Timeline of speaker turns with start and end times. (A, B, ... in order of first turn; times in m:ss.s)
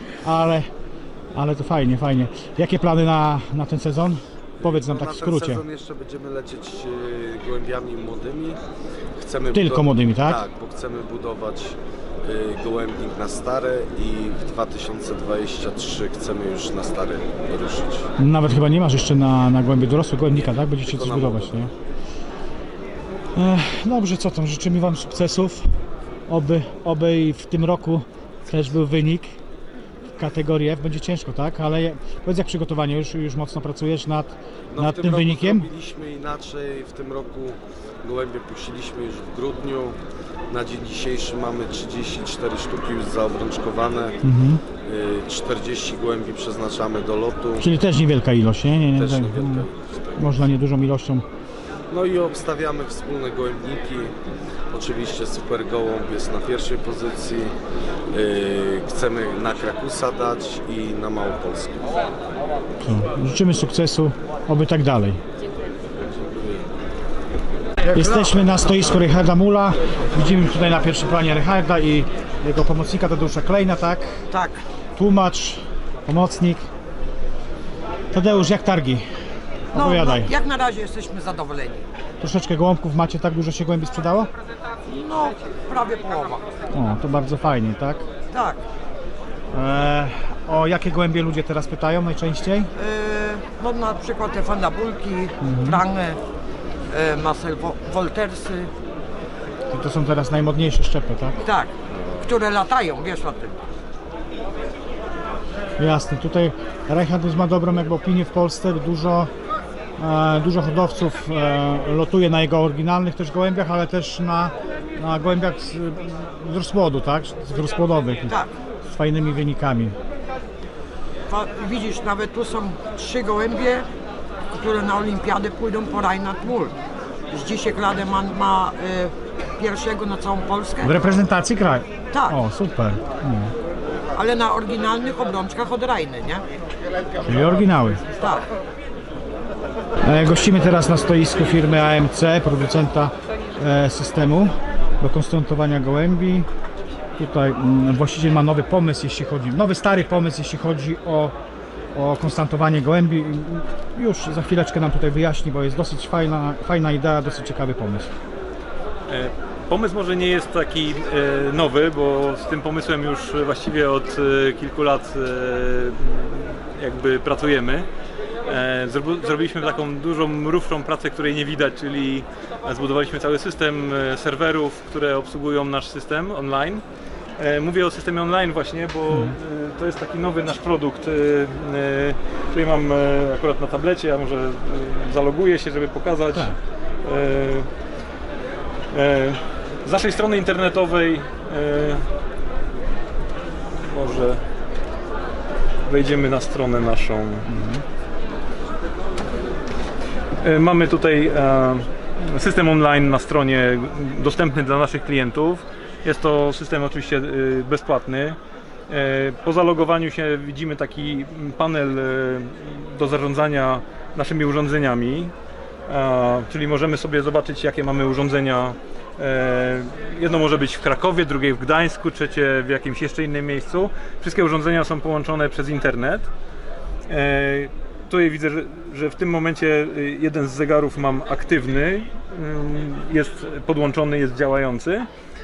0:00.2-0:00.7 A
0:01.3-0:05.6 A
0:04.6-0:08.6 B
0:09.2-0:18.1 B
0:09.5-0:10.4 A
0:18.2-0:21.7 A
0:20.4-0:21.7 B
0:23.4-0:25.7 A
0:26.3-0:29.4 A
0:30.2-0:35.7 A
0:34.7-0:40.0 B
0:40.5-0:44.2 B
0:44.2-0:44.6 A
0:44.7-0:47.7 B
0:47.6-0:51.2 A
0:48.9-0:50.4 B
0:51.9-0:54.2 B
0:54.7-0:57.5 B
0:58.1-1:01.9 B
1:02.8-1:05.2 A
1:06.0-1:06.7 B
1:07.9-1:14.2 A
1:14.4-1:14.6 C
1:15.0-1:16.7 A
1:18.1-1:19.0 A
1:19.7-1:20.3 A
1:19.8-1:21.8 C
1:22.2-1:24.3 A
1:24.9-1:26.4 C
1:26.7-1:28.0 A
1:29.5-1:32.7 A
1:32.8-1:36.2 C
1:35.4-1:35.8 A
1:36.9-1:38.7 C
1:39.7-1:41.4 A
1:42.2-1:43.6 C
1:45.8-1:49.3 A
1:50.0-2:00.0 A
2:01.3-2:03.8 C
2:04.5-2:06.7 C
2:07.3-2:10.9 C
2:10.8-2:13.5 A
2:14.2-2:16.4 C
2:17.2-2:18.0 A
2:20.0-2:26.5 A
2:27.2-2:31.4 A
2:31.9-2:38.1 A
2:39.1-2:47.9 D
2:48.4-2:56.8 D
2:57.4-3:07.7 D
2:59.1-2:59.4 A
3:08.9-3:12.1 D
3:13.9-3:14.4 D
3:15.9-3:17.5 D
3:17.5-3:17.8 A
3:20.4-3:28.4 D
3:28.9-3:35.3 D
3:35.9-3:46.3 D
3:47.1-3:55.1 D